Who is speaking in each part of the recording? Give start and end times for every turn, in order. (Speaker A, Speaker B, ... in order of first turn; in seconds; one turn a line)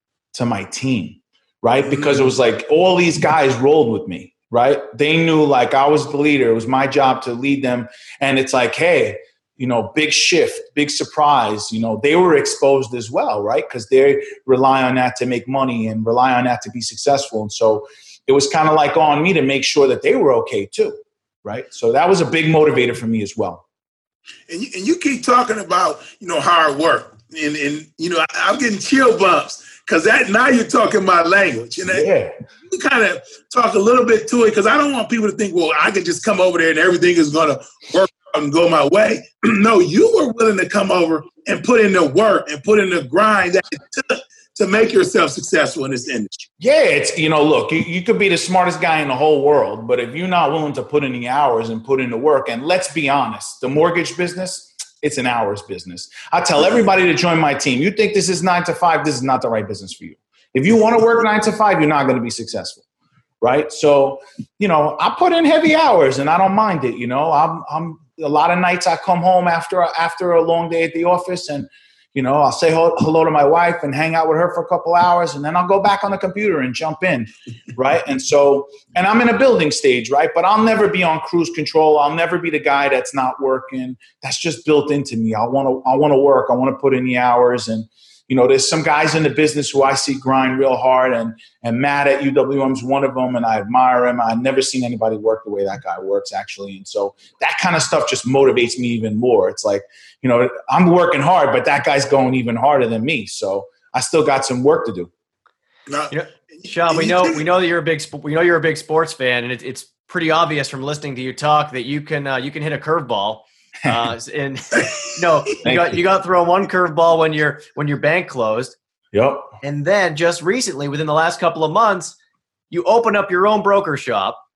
Speaker A: 0.3-23.6
Speaker B: 24.5-32.1
Speaker A: 31.9-32.3
Speaker B: 32.6-46.5
Speaker A: 46.6-62.8
Speaker A: 63.4-105.1
Speaker B: 105.9-107.4
Speaker C: 106.1-118.7
Speaker A: 115.6-116.0
Speaker A: 119.1-119.5
Speaker C: 119.6-122.2
Speaker C: 122.7-124.4